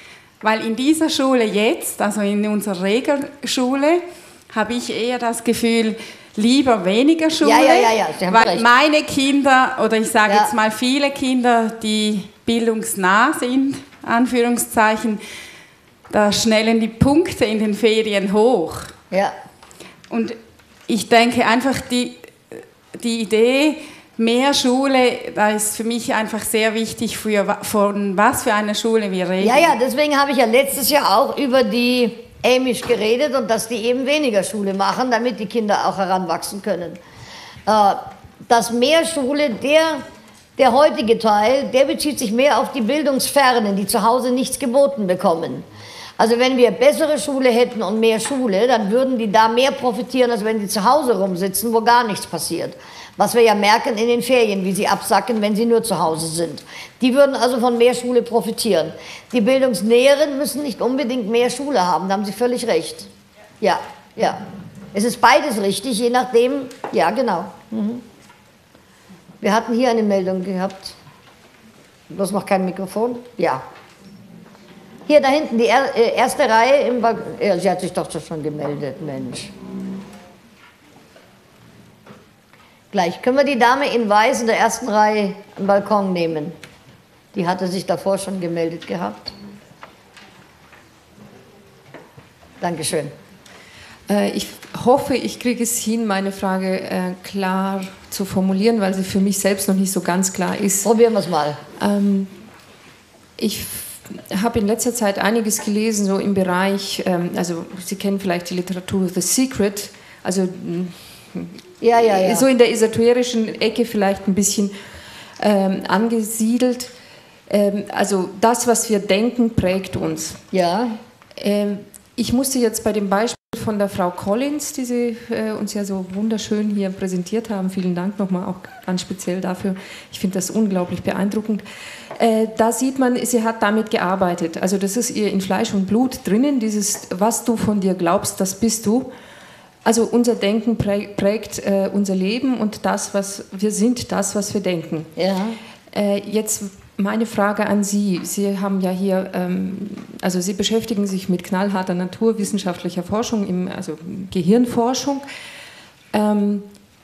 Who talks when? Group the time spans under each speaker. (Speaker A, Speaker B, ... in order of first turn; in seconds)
Speaker A: 0.4-15.2, 16.1-18.9, 20.1-20.4, 20.9-29.7
Speaker B: 7.4-8.7, 29.4-37.0, 37.7-40.0, 40.6-45.7, 46.2-63.1, 63.6-64.4, 64.9-68.0, 69.4-71.0, 72.1-73.6, 75.1-79.5, 82.9-86.6, 87.3-89.3, 92.6-93.1, 100.8-101.6, 111.8-112.5, 120.5-121.0, 145.2-145.6
Speaker C: 94.1-100.9, 101.8-102.3, 103.4-114.8, 115.4-116.9, 117.5-120.4, 121.4-131.6, 132.2-139.1, 139.8-145.1, 145.9-155.2, 156.1-156.7